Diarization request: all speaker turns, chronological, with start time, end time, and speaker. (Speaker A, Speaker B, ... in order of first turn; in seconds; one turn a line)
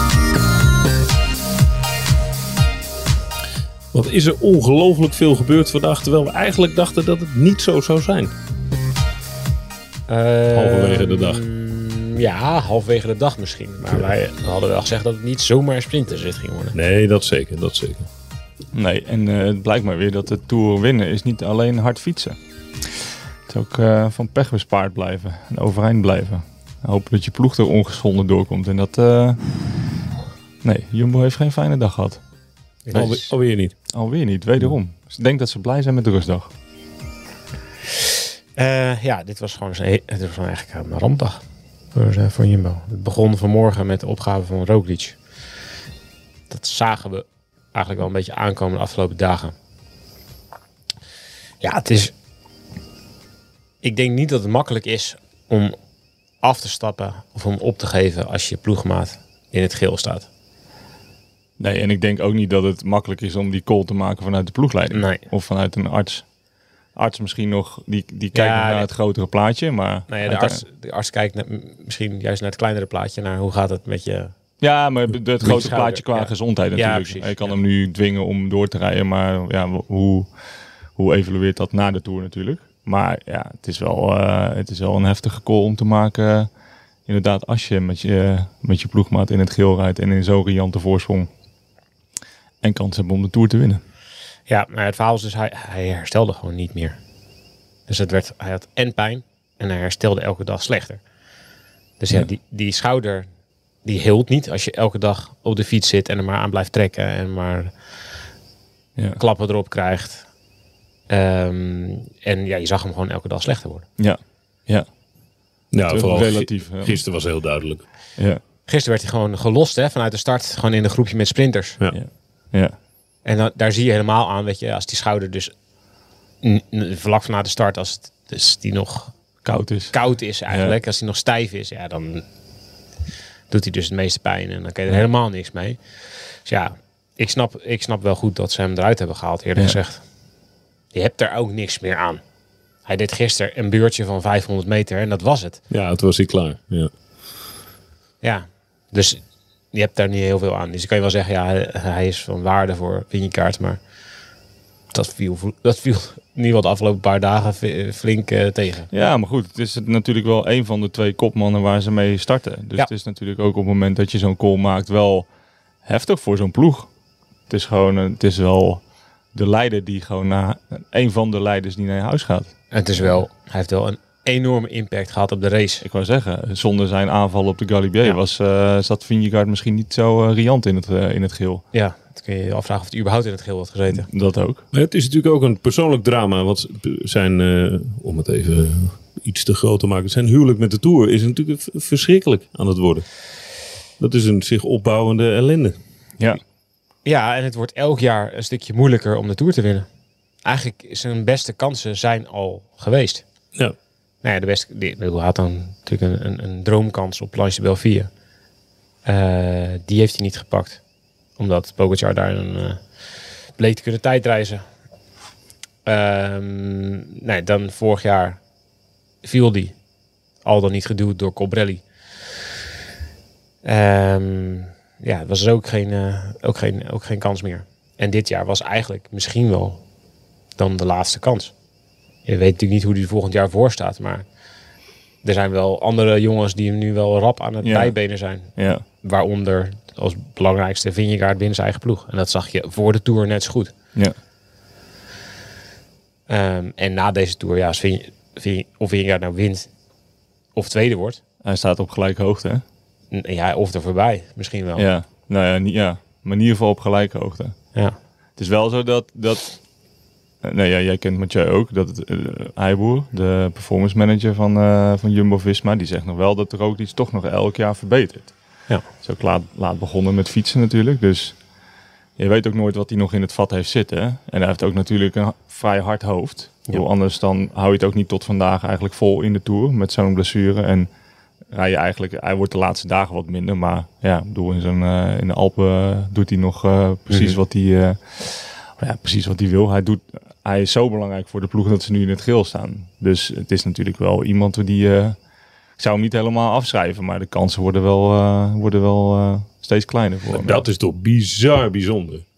Speaker A: 3.9-8.3
Speaker B: 10.1-16.8
Speaker A: 10.5-11.4
Speaker A: 16.7-18.1
Speaker C: 18.7-22.4
Speaker C: 23.5-29.4
Speaker C: 30.6-32.2
Speaker B: 32.9-33.3
Speaker A: 32.9-33.7
Speaker C: 33.9-36.5
Speaker B: 38.5-41.4
Speaker B: 41.9-45.2
Speaker B: 46.5-49.5
Speaker B: 51.6-52.1
Speaker B: 53.8-55.8
Speaker B: 56.4-60.3
Speaker C: 61.6-66.2
Speaker B: 64.9-65.2
Speaker C: 66.9-70.6
Speaker B: 68.3-68.9
Speaker B: 70.1-74.3
Speaker C: 74.6-80.3
Speaker B: 75.4-77.6
Speaker C: 81.0-86.5
Speaker C: 87.1-91.3
Speaker C: 92.6-93.8
Speaker B: 94.5-97.0
Speaker B: 97.9-101.0
Speaker B: 102.0-103.3
Speaker B: 103.8-107.7
Speaker B: 109.2-110.2
Speaker B: 111.1-113.8
Speaker C: 114.0-114.9
Speaker A: 115.7-117.8
Speaker C: 115.8-117.0
Speaker B: 118.7-121.8
Speaker C: 121.9-122.7
Speaker B: 123.2-125.5
Speaker B: 126.4-129.1
Speaker C: 129.4-129.9
Speaker B: 129.9-132.2
Speaker C: 130.5-130.8
Speaker B: 133.5-135.8
Speaker B: 136.4-140.0
Speaker B: 140.9-142.2
Speaker B: 142.8-145.6
Speaker A: 145.7-146.9
Speaker B: 148.2-149.2
Speaker B: 149.7-153.8
Speaker B: 154.9-158.9
Speaker C: 158.9-165.3
Speaker C: 165.8-166.9
Speaker C: 167.5-168.8
Speaker C: 169.3-172.5
Speaker B: 172.7-175.8
Speaker C: 175.8-181.6
Speaker B: 181.7-184.1
Speaker C: 183.9-184.6
Speaker A: 184.7-193.1
Speaker A: 194.0-195.7
Speaker B: 197.0-199.9
Speaker B: 200.4-203.2
Speaker B: 204.2-208.1
Speaker B: 209.0-210.8
Speaker B: 211.4-212.8
Speaker B: 213.6-214.6
Speaker B: 215.8-218.4
Speaker B: 219.2-219.7
Speaker B: 220.4-221.8
Speaker B: 223.6-229.8
Speaker B: 230.6-231.5
Speaker B: 232.2-234.2
Speaker B: 235.2-243.7
Speaker C: 237.6-237.9
Speaker C: 238.6-238.8
Speaker B: 246.3-249.7
Speaker B: 250.5-251.2
Speaker C: 251.4-252.6
Speaker B: 253.1-254.8
Speaker C: 254.8-257.6
Speaker C: 258.4-259.6
Speaker C: 260.4-268.3
Speaker C: 269.0-271.4
Speaker C: 272.2-280.9
Speaker C: 281.5-295.2
Speaker B: 287.1-287.4
Speaker C: 295.8-300.6
Speaker A: 300.3-302.2